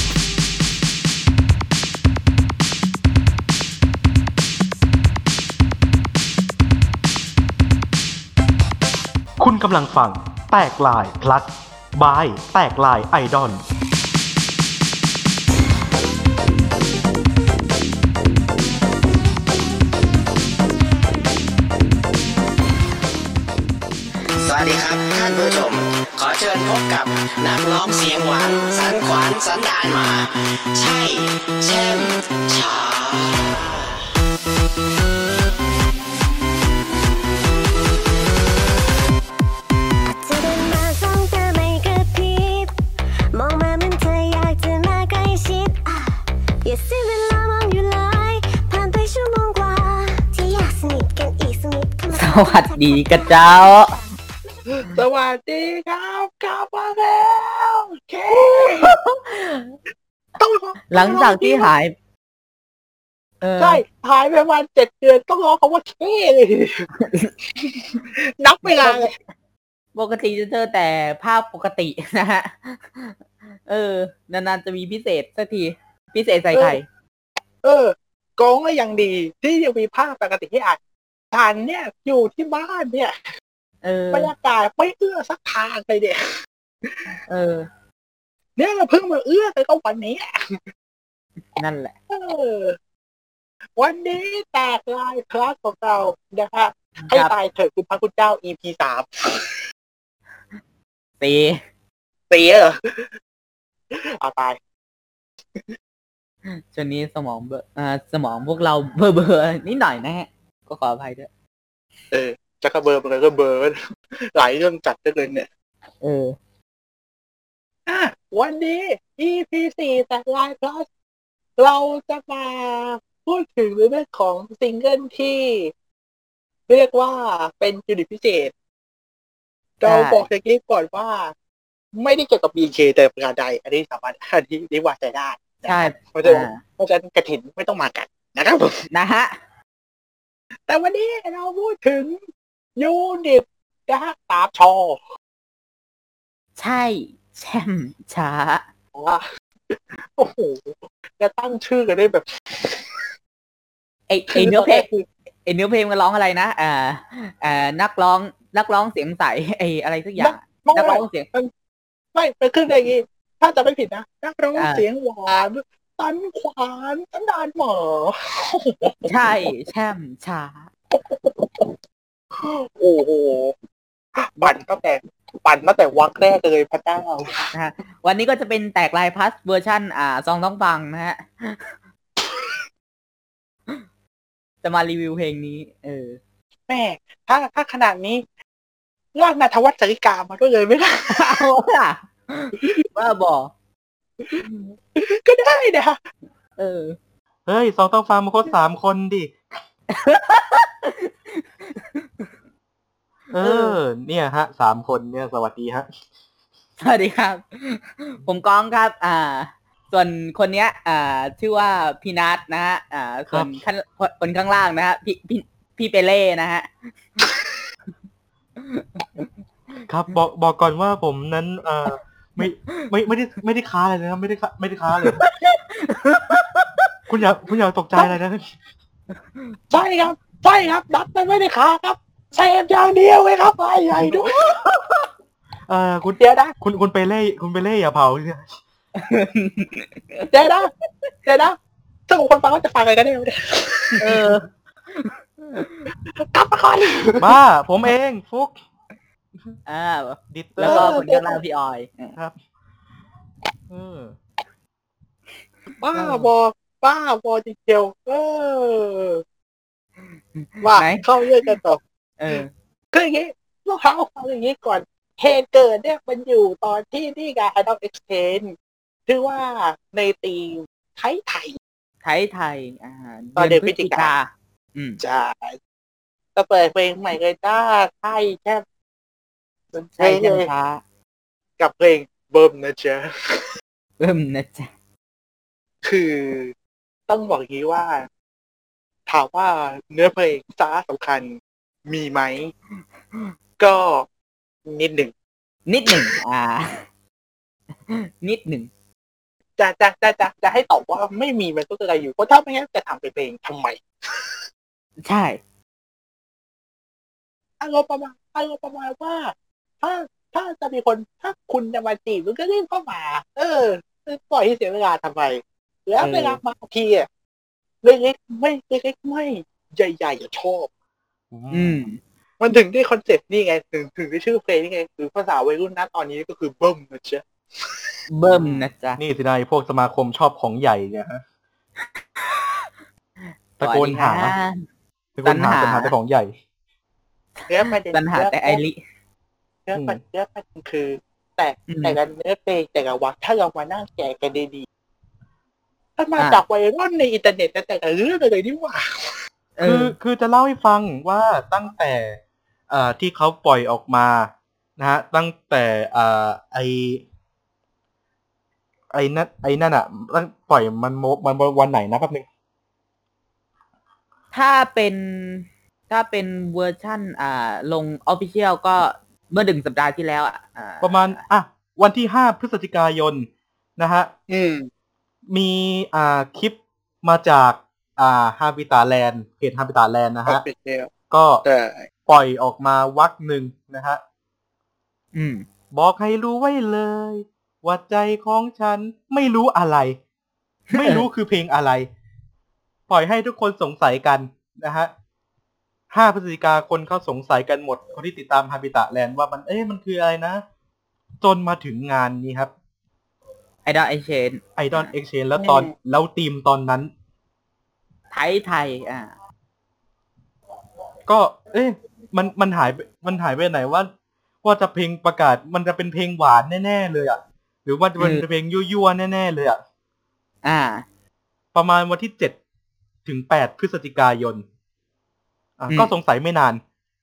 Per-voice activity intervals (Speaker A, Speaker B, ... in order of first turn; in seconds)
Speaker A: 9.4-13.6, 197.4-199.3, 203.3-205.9, 213.3-213.6, 219.9-225.2, 227.1-228.5, 235.7-238.5, 247.2-248.5, 250.3-251.0, 253.7-254.2, 321.3-321.9, 328.3-331.2, 333.6-334.3, 335.2-336.3, 339.7-340.0, 349.6-357.0, 358.9-362.2, 370.8-374.1, 375.3-380.4, 381.1-381.4, 382.1-384.0, 385.7-390.0, 390.7-391.9, 392.9-394.9, 395.9-400.4, 401.2-402.5, 404.6-406.9, 411.1-413.9, 414.4-419.6, 421.5-422.4, 423.0-424.4, 425.6-426.6
Speaker B: 24.4-33.8
Speaker C: 40.2-42.8, 43.3-53.8
Speaker D: 52.1-53.9, 58.4-59.8, 60.9-61.9, 63.4-63.8, 67.0-67.3, 68.6-69.1, 69.9-76.8, 83.8-84.3, 87.3-87.7, 91.5-91.9, 101.2-101.6, 106.5-111.3, 116.0-116.3, 129.8-130.2, 135.6-136.6, 138.9-139.3, 146.6-148.6, 154.1-154.8, 155.4-161.3, 164.6-164.8, 169.1-170.7, 177.5-181.8, 184.6-186.2, 191.1-193.5, 196.6-197.0, 199.9-202.3, 203.4-203.8, 206.8-216.7, 218.6-219.3, 225.1-226.9, 234.3-235.1, 238.9-240.3, 244.0-245.9, 249.7-252.2, 255.9-256.3, 260.3-261.0, 262.2-262.5, 272.0-275.0, 280.0-280.8, 284.0-284.7, 295.7-296.8, 297.9-298.7, 305.0-305.4, 316.0-316.4, 321.5-322.0, 328.1-329.0, 331.9-332.6, 333.6-334.6, 335.2-335.9, 337.9-338.8, 341.7-342.0, 349.6-349.9, 364.3-371.1, 385.1-385.4, 390.7-391.1, 403.6-404.9, 408.1-409.1, 418.0-418.2, 420.4-420.8
Speaker E: 54.6-59.0, 60.4-61.7, 63.6-66.9, 67.6-69.1, 77.6-80.8, 81.3-83.1, 84.1-86.3, 86.8-87.2, 88.6-90.6, 92.1-92.8, 93.8-99.5, 102.3-103.1, 103.9-104.6, 112.1-115.5, 117.9-120.9, 121.6-125.7, 126.7-128.5, 129.8-131.3, 131.9-138.8, 140.7-142.2, 142.8-145.0, 148.9-153.0, 154.3-155.1, 160.2-161.5, 162.1-169.5, 170.9-171.8, 172.3-173.5, 174.2-177.4, 186.7-188.2, 189.1-191.4, 194.2-196.0, 229.7-234.4, 236.2-236.5, 240.3-240.7, 241.2-241.6, 242.1-244.3, 246.2-247.3, 250.6-251.4, 255.8-259.2, 260.6-261.8, 262.9-268.6, 269.1-271.6, 273.4-274.1, 275.0-275.6, 276.3-278.6, 279.7-280.5, 281.6-283.5, 285.8-286.5, 287.1-288.1, 289.1-292.5, 293.6-294.1, 294.6-295.1, 299.6-304.3, 307.6-317.1, 317.8-320.7, 322.4-327.9, 337.5-338.6, 339.7-344.6, 346.0-349.2, 374.3-374.7, 380.3-380.9, 381.4-381.9, 405.4-405.7